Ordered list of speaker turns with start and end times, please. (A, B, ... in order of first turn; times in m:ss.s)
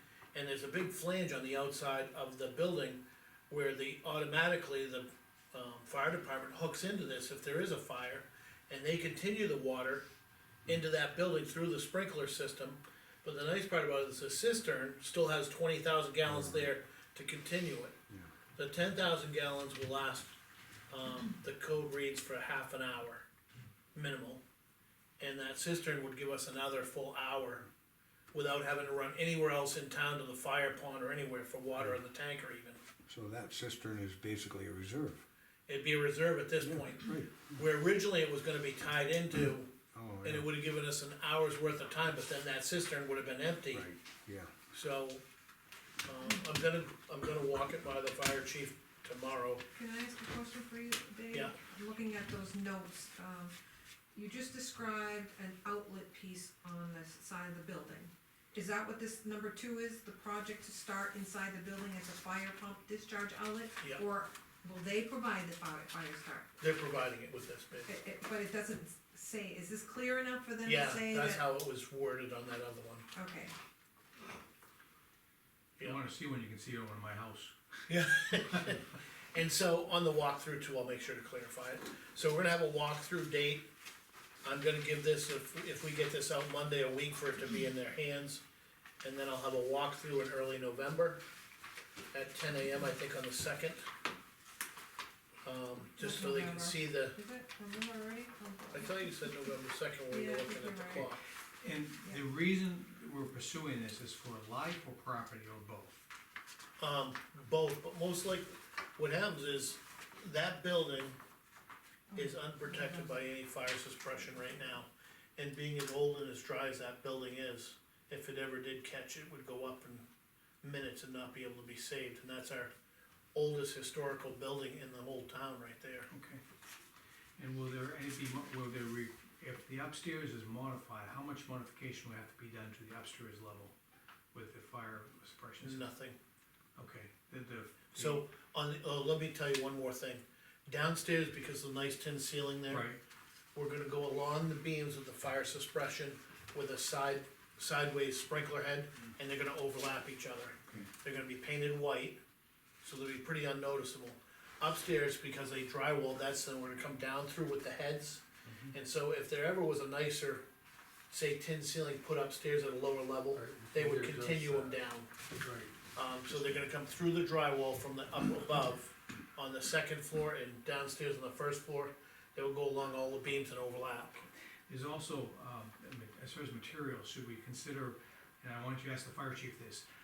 0:00.3-0:10.1 A
0:10.7-0:18.0 A
0:16.2-0:16.7 B
0:18.5-0:20.4 A
0:20.9-0:23.2 A
0:23.9-0:24.4 A
0:25.2-0:27.7 A
0:28.3-0:32.8 A
0:33.1-0:35.2 B
0:35.7-0:43.9 A
0:36.6-0:37.5 B
0:39.9-0:40.5 B
0:43.7-0:44.5 B
0:44.7-0:45.2 A
0:46.0-0:49.6 A
0:49.7-0:53.5 C
0:54.2-1:06.5 C
1:06.6-1:07.9 A
1:07.9-1:11.4 C
1:10.6-1:13.1 A
1:13.1-1:13.5 C
1:15.8-1:17.5 D
1:17.9-1:23.7 A
1:24.4-1:28.4 A
1:29.0-1:31.2 A
1:32.1-1:33.9 A
1:35.4-1:37.2 A
1:36.0-1:39.0 C
1:38.7-1:41.2 A
1:40.1-1:41.1 C
1:41.6-1:46.0 D
1:46.8-1:51.2 A
1:52.1-1:53.1 C
1:52.2-2:00.1 A
2:00.6-2:02.7 A
2:03.3-2:06.1 A
2:06.1-2:06.4 D
2:07.4-2:13.7 D
2:14.3-2:15.9 D
2:15.6-2:16.2 A
2:16.8-2:18.2 D
2:17.9-2:22.9 A
2:22.7-2:23.0 D
2:23.6-2:32.2 A
2:32.8-2:40.4 A
2:38.4-2:38.7 D
2:41.1-2:45.1 A
2:43.3-2:44.8 D
2:45.3-2:45.7 D
2:45.9-2:54.3 A
2:54.7-2:59.9 D